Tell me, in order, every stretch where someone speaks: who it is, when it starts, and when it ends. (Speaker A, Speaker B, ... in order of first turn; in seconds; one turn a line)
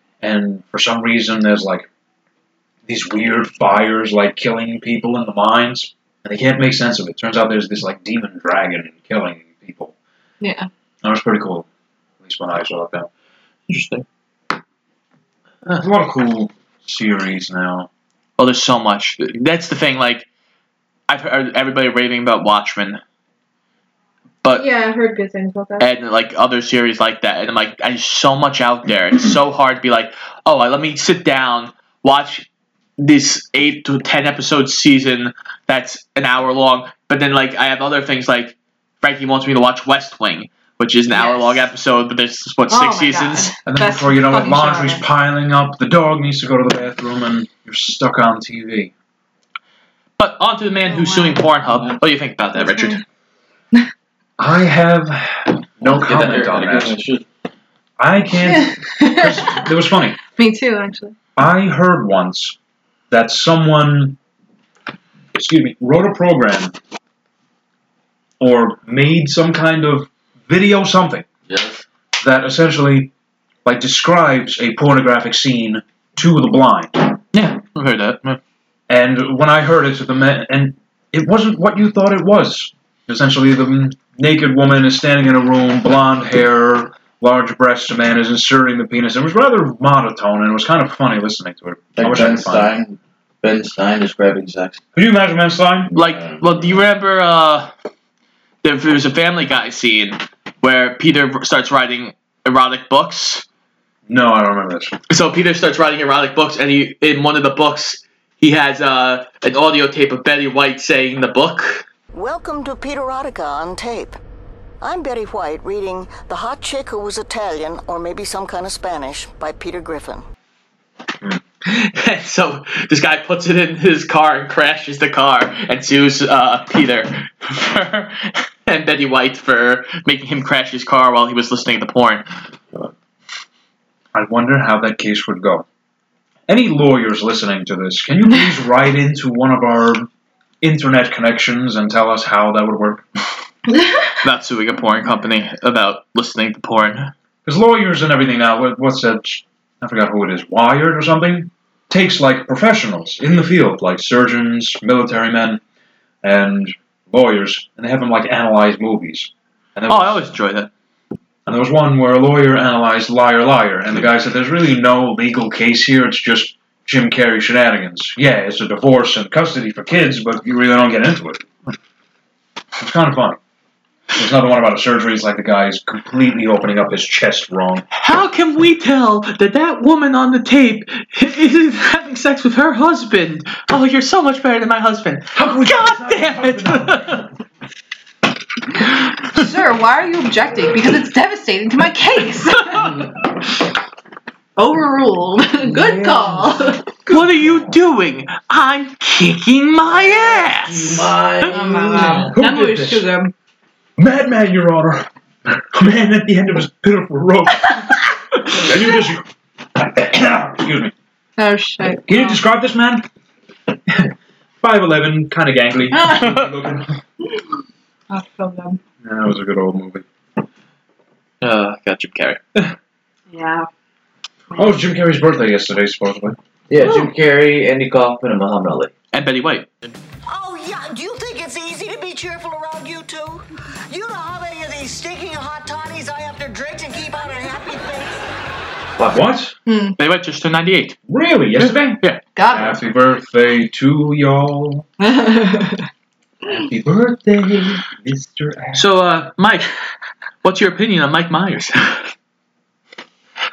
Speaker A: 0.2-1.9
Speaker A: 2.9-9.9
Speaker B: 10.4-10.7
Speaker A: 11.0-11.7
Speaker A: 12.2-13.1
Speaker C: 13.7-14.1
Speaker A: 15.7-17.9
Speaker C: 18.4-20.3
Speaker C: 21.1-23.0
Speaker B: 24.5-25.9
Speaker C: 25.8-32.5
Speaker C: 33.0-43.6
Speaker B: 41.1-41.6
Speaker B: 42.7-45.0
Speaker A: 43.7-48.9
Speaker C: 50.2-53.0
Speaker B: 50.9-51.4
Speaker B: 52.6-53.0
Speaker A: 54.4-57.0
Speaker D: 55.8-57.2
Speaker A: 58.0-60.2
Speaker B: 58.4-59.7
Speaker B: 60.2-61.2
Speaker A: 61.4-62.5
Speaker A: 63.1-64.2
Speaker A: 65.3-66.7
Speaker A: 68.4-71.3
Speaker D: 71.5-71.8
Speaker A: 72.2-73.1
Speaker A: 73.6-77.1
Speaker C: 77.3-78.4
Speaker A: 78.9-92.7
Speaker D: 92.0-94.8
Speaker A: 95.0-95.9
Speaker D: 95.9-96.8
Speaker C: 95.9-97.7
Speaker C: 98.6-103.5
Speaker A: 104.1-105.0
Speaker C: 105.1-111.8
Speaker E: 112.1-114.2
Speaker E: 114.8-120.3
Speaker C: 121.6-132.3
Speaker A: 134.1-135.6
Speaker A: 136.5-140.1
Speaker A: 140.6-143.0
Speaker B: 143.7-144.1
Speaker C: 144.2-147.1
Speaker A: 147.4-155.6
Speaker A: 156.2-160.3
Speaker C: 159.9-160.7
Speaker A: 161.4-171.8
Speaker A: 172.8-173.4
Speaker A: 174.1-177.9
Speaker C: 177.9-187.3
Speaker A: 185.3-187.2
Speaker B: 189.3-192.9
Speaker B: 194.6-196.8
Speaker A: 195.7-197.7
Speaker C: 197.1-201.5
Speaker D: 200.0-202.3
Speaker B: 201.5-203.3
Speaker A: 202.1-203.1
Speaker A: 204.0-210.9
Speaker B: 211.4-212.4
Speaker A: 212.1-213.1
Speaker A: 213.9-217.0
Speaker B: 215.9-216.3
Speaker C: 216.2-216.5
Speaker B: 218.1-218.8
Speaker A: 219.0-220.1
Speaker C: 221.4-222.8
Speaker B: 223.3-223.7
Speaker B: 224.5-224.8
Speaker A: 224.6-226.4
Speaker D: 226.7-228.9
Speaker B: 226.8-227.1
Speaker C: 229.1-229.7
Speaker E: 230.3-238.2
Speaker D: 239.0-239.3
Speaker A: 239.1-239.6
Speaker B: 239.7-239.9
Speaker C: 240.0-241.0
Speaker A: 241.1-244.9
Speaker C: 241.6-242.2
Speaker B: 242.4-242.8
Speaker B: 245.0-245.9
Speaker A: 246.5-248.9
Speaker C: 248.7-249.7
Speaker C: 250.4-252.1